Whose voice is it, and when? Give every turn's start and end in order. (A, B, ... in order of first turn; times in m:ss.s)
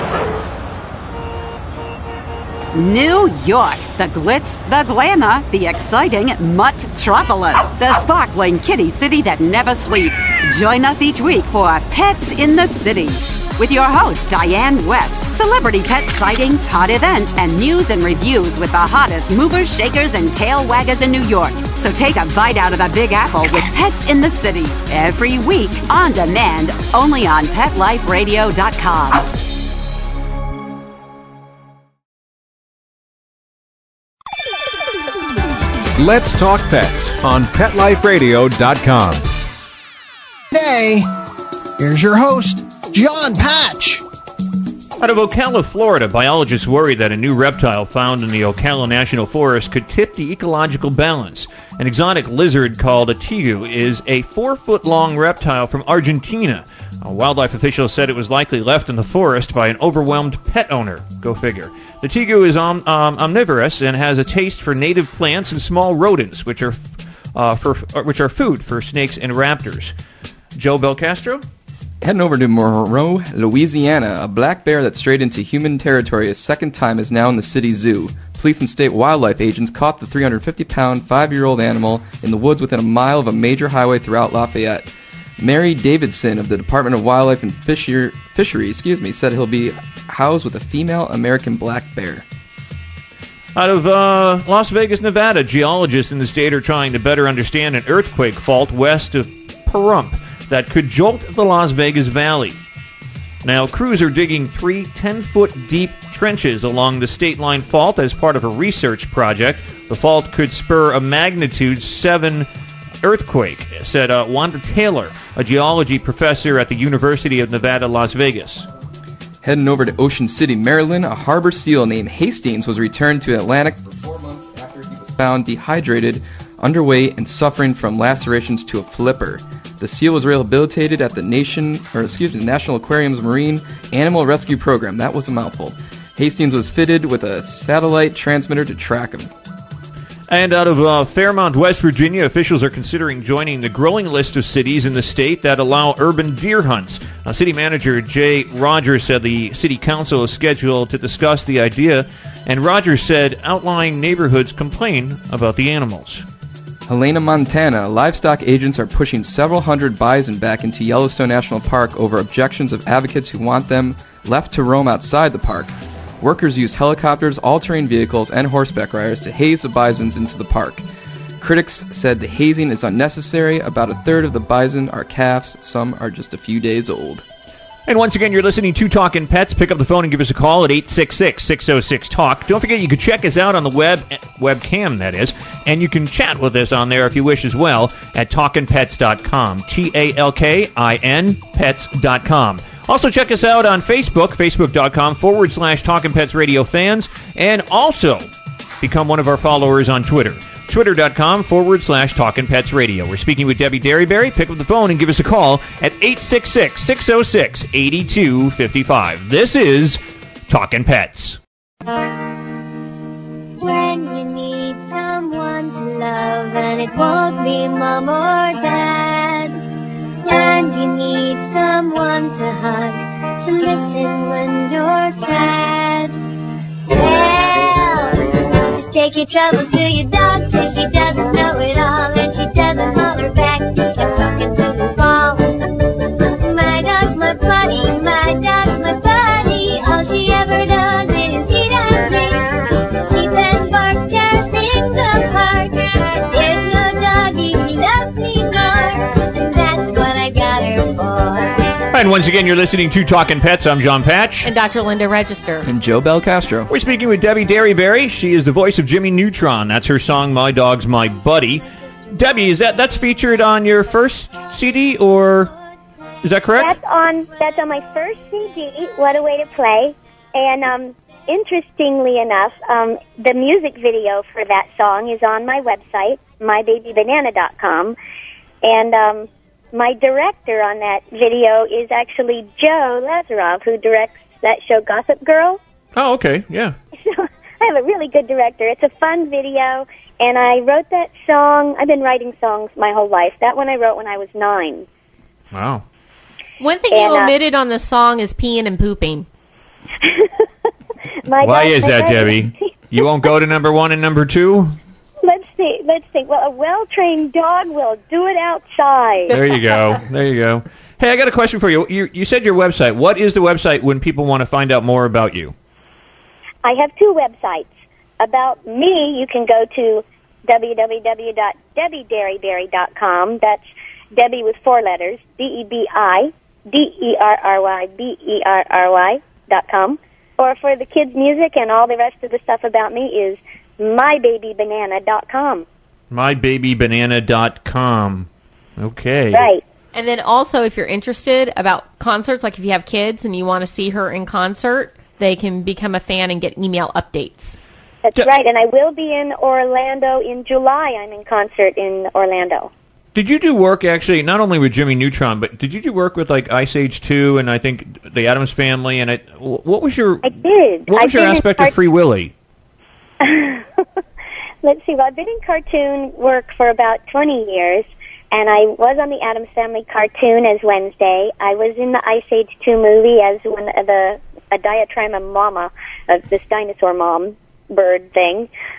0:02.7-0:29.2 A
0:36.0-0:39.3 B
0:40.5-0:41.1 C
0:41.8-0:44.0 C
0:45.0-1:06.8 D
1:07.4-1:09.9 D
1:10.6-1:11.4 D
1:12.0-1:32.2 E
1:33.6-1:42.6 D
1:43.4-1:52.5 D
1:53.0-1:58.7 D
1:59.4-2:19.3 E
2:20.3-2:36.2 D
2:36.9-2:50.8 E
2:51.4-2:57.2 E
2:57.9-3:18.3 D
3:18.8-3:31.4 D
3:33.6-3:39.6 F
3:40.2-3:46.2 F
3:46.9-3:55.7 F
3:56.3-4:11.8 F
4:11.9-4:14.5 D
4:14.4-4:15.7 G
4:15.6-4:16.7 E
4:16.7-4:25.5 D
4:26.2-4:26.8 D
4:26.6-4:38.0 H
4:38.6-4:45.6 H
4:46.0-4:46.8 D
4:47.0-4:54.9 H
4:55.5-4:55.8 D
4:56.6-4:59.3 G
4:56.9-4:57.3 H
5:00.0-5:00.3 H
5:01.3-5:02.6 H
5:01.4-5:04.8 D
5:05.2-5:09.3 H
5:09.3-5:15.5 D
5:16.6-5:35.7 H
5:36.1-5:39.5 D
5:39.3-5:39.6 H
5:39.9-5:47.6 G
5:48.0-5:52.7 H
5:53.2-6:00.4 D
6:00.2-6:01.7 H
6:00.9-6:02.3 D
6:03.2-6:03.7 H
6:04.6-6:18.5 H